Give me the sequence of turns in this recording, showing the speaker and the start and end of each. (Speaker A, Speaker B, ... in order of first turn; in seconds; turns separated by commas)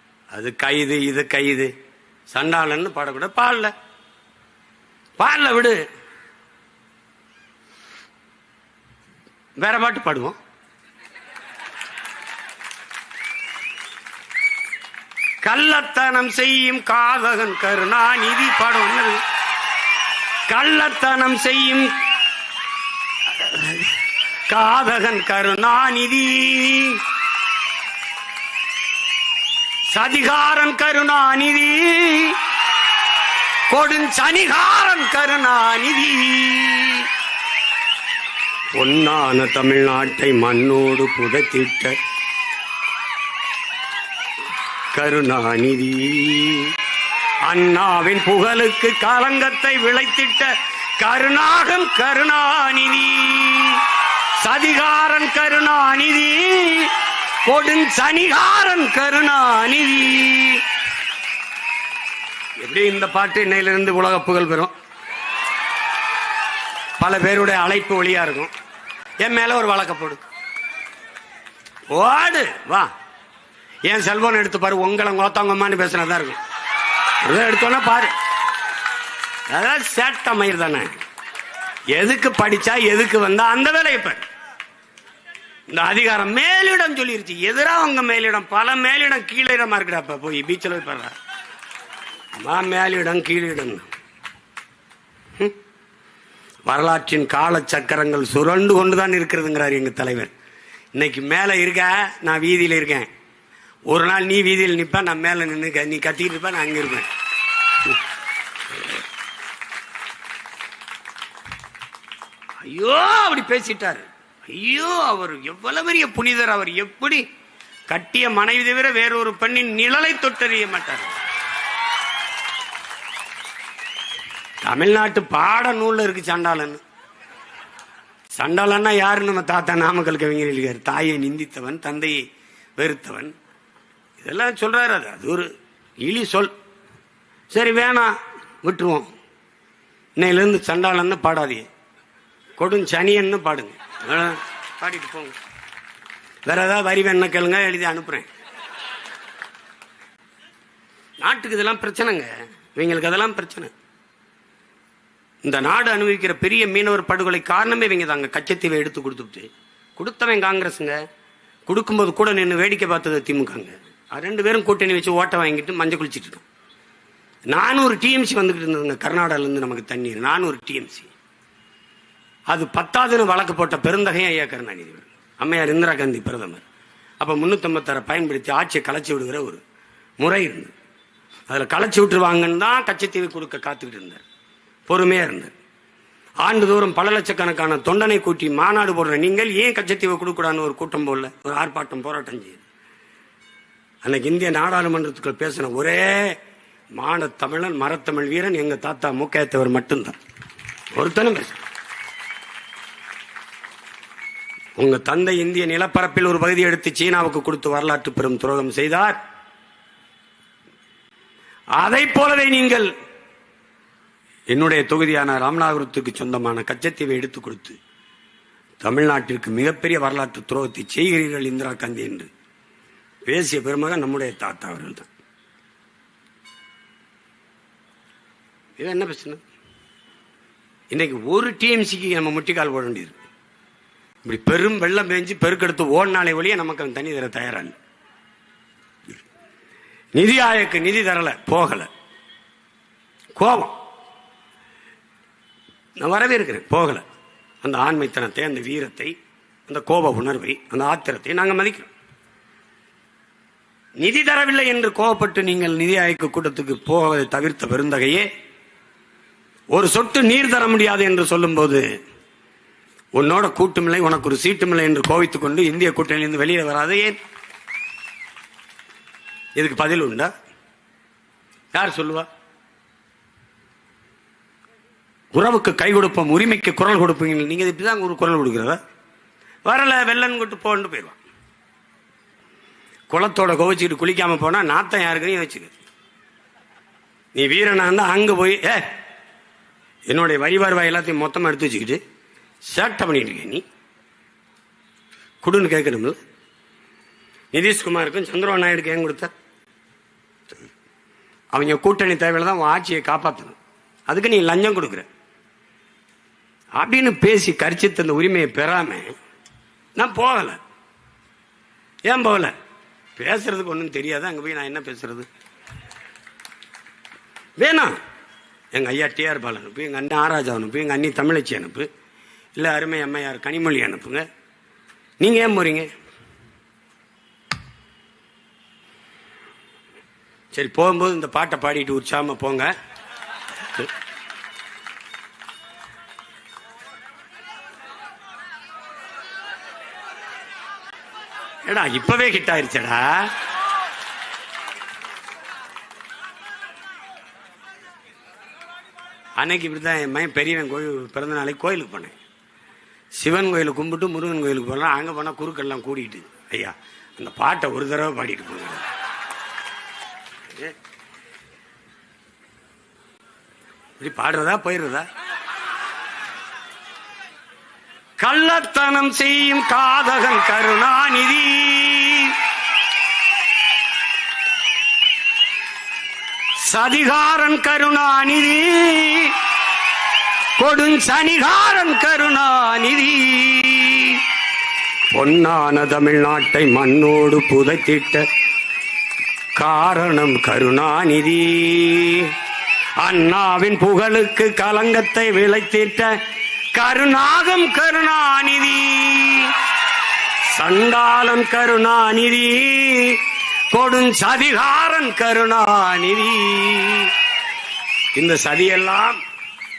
Speaker A: 0.3-1.7, Speaker A: 2.3-3.7, Speaker A: 5.2-5.8, Speaker A: 9.6-10.4, Speaker A: 15.4-19.2, Speaker A: 20.5-21.9, Speaker A: 23.4-23.9, Speaker A: 24.5-27.0, Speaker A: 29.9-32.4, Speaker A: 33.7-37.1, Speaker A: 38.7-42.0, Speaker A: 44.9-46.7, Speaker A: 47.4-53.8, Speaker A: 54.4-56.9, Speaker A: 57.5-60.6, Speaker A: 62.6-64.7, Speaker A: 67.0-68.5, Speaker A: 69.2-70.2, Speaker A: 71.9-72.9, Speaker A: 73.9-76.4, Speaker A: 77.2-78.1, Speaker A: 79.5-80.9, Speaker A: 81.9-84.2, Speaker A: 85.7-91.1, Speaker A: 92.3-93.9, Speaker A: 96.7-100.3, Speaker A: 101.0-103.1, Speaker A: 103.9-107.1, Speaker A: 112.6-117.2, Speaker A: 117.9-121.1, Speaker A: 124.6-126.8, Speaker A: 128.3-132.2, Speaker A: 132.8-133.3, Speaker A: 134.2-135.5, Speaker A: 136.0-136.5, Speaker A: 137.5-139.1, Speaker A: 140.2-141.7, Speaker A: 142.6-145.4, Speaker A: 146.5-148.3, Speaker A: 151.2-153.7, Speaker A: 155.4-161.0, Speaker A: 161.7-166.4, Speaker A: 167.5-171.1, Speaker A: 172.5-176.6, Speaker A: 177.2-179.6, Speaker A: 180.2-180.7, Speaker A: 181.5-184.2, Speaker A: 184.9-185.5, Speaker A: 186.4-192.6, Speaker A: 194.0-196.4, Speaker A: 197.0-200.2, Speaker A: 200.9-201.7, Speaker A: 204.8-209.2, Speaker A: 211.8-212.9, Speaker A: 214.5-217.8, Speaker A: 218.8-222.3, Speaker A: 223.3-225.1, Speaker A: 228.8-229.4, Speaker A: 230.9-233.2, Speaker A: 234.2-237.8, Speaker A: 240.2-241.9, Speaker A: 243.4-243.7, Speaker A: 246.0-247.0, Speaker A: 247.6-249.2, Speaker A: 249.7-251.9, Speaker A: 254.0-258.3, Speaker A: 259.7-261.9, Speaker A: 263.1-267.2, Speaker A: 269.6-270.3, Speaker A: 271.7-272.3, Speaker A: 275.3-278.8, Speaker A: 279.7-281.2, Speaker A: 283.1-285.7, Speaker A: 287.4-288.9, Speaker A: 290.1-292.0, Speaker A: 292.7-293.6, Speaker A: 295.4-296.2, Speaker A: 297.5-299.3, Speaker A: 301.5-303.6, Speaker A: 304.1-305.1, Speaker A: 306.8-309.1, Speaker A: 310.0-310.6, Speaker A: 312.1-312.5, Speaker A: 313.2-315.3, Speaker A: 317.6-317.9, Speaker A: 318.7-321.9, Speaker A: 322.6-324.2, Speaker A: 325.2-325.9, Speaker A: 330.5-332.7, Speaker A: 341.7-343.3, Speaker A: 349.4-352.2, Speaker A: 353.2-358.9, Speaker A: 364.0-365.1, Speaker A: 368.2-372.4, Speaker A: 376.6-379.4, Speaker A: 380.6-384.2, Speaker A: 385.1-388.2, Speaker A: 389.6-392.3, Speaker A: 393.0-396.2, Speaker A: 396.8-399.5, Speaker A: 400.5-403.2, Speaker A: 403.7-407.1, Speaker A: 408.2-409.2